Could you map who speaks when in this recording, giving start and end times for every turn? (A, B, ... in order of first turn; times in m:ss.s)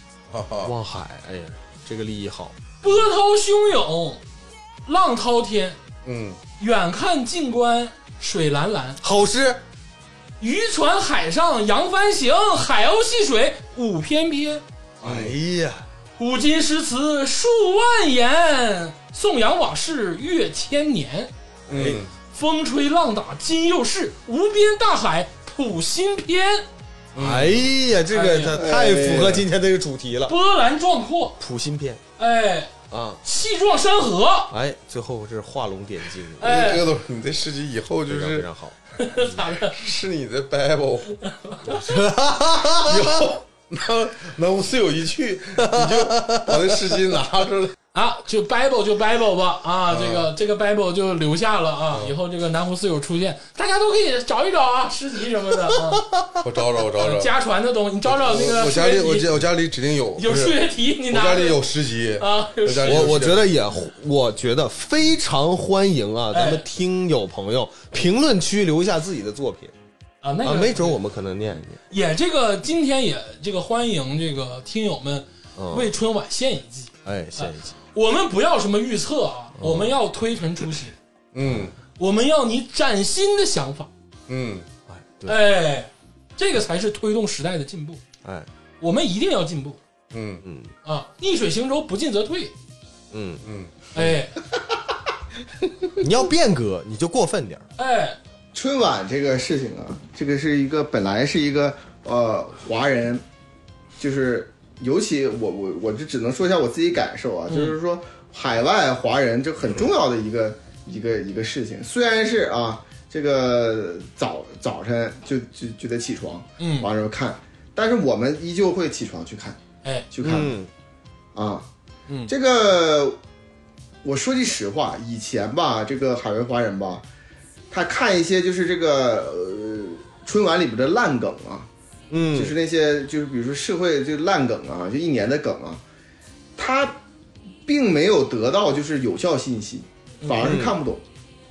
0:00.3-0:00.7 A
0:00.6-0:02.6 B
0:02.8-0:04.2 C
0:04.9-0:05.8 C
0:06.0-0:06.4 A
0:06.6-0:09.0 C
0:09.0-0:09.6 B
0:10.4-0:14.6 C
0:15.0-0:15.4 A
0:15.0-0:15.9 B
0:16.2-0:21.3 C
0:21.7-0:22.1 A
0:21.7-0:22.0 B
0:22.3-0:26.7 C
0:27.2-0:27.7 A
0:27.2-0:30.4 B
0:28.1-0:28.6 C
0:28.5-0:29.4 D
0:30.3-0:31.4 C
0:31.4-0:32.0 B
0:32.2-0:32.7 C
0:32.9-0:33.2 B
0:33.2-0:34.5 C
0:34.5-0:36.8 B
0:36.4-0:36.8 C
0:36.4-0:38.5 A
0:38.1-0:39.3 B
0:39.0-0:39.7 C
0:39.6-0:42.0 A
0:41.3-0:41.7 C
0:41.7-0:43.3 B
0:42.6-0:47.8 A
0:45.6-0:47.0 B
0:47.9-0:56.0 C
0:49.9-0:50.3 A
0:55.8-0:56.4 B
0:56.4-0:57.3 A
0:57.0-0:59.3 C
0:58.1-1:03.5 A
1:00.2-1:01.6 C
1:02.2-1:03.2 C
1:02.8-1:09.7 B
1:06.3-1:06.6 C
1:10.2-1:11.0 C
1:10.4-1:11.8 B
1:11.9-1:21.0 C
1:15.6-1:15.9 B
1:17.0-1:17.8 B
1:19.6-1:20.0 B
1:21.3-1:21.7 A
1:21.4-1:21.7 B
1:22.0-1:23.9 C
1:24.3-1:24.7 A
1:24.9-1:25.4 B
1:25.3-1:28.0 C
1:28.8-1:29.8 C
1:30.1-1:30.4 A
1:30.4-1:30.7 B
1:30.8-1:32.5 C
1:33.1-1:33.4 B
1:33.4-1:33.9 A
1:34.0-1:34.4 C
1:36.0-1:37.6 B
1:37.8-1:38.2 C
1:38.5-1:43.2 D
1:44.0-1:59.6 D
1:47.5-1:47.8 C
1:56.6-1:56.9 C
2:00.1-2:00.6 D
2:00.2-2:00.7 B
2:01.4-2:01.7 D
2:02.3-2:03.2 D
2:04.0-2:07.0 D
2:07.7-2:11.7 D
2:12.1-2:12.6 B
2:12.3-2:15.8 D
2:16.6-2:17.0 D
2:17.7-2:21.0 D
2:20.2-2:20.5 C
2:20.4-2:20.8 B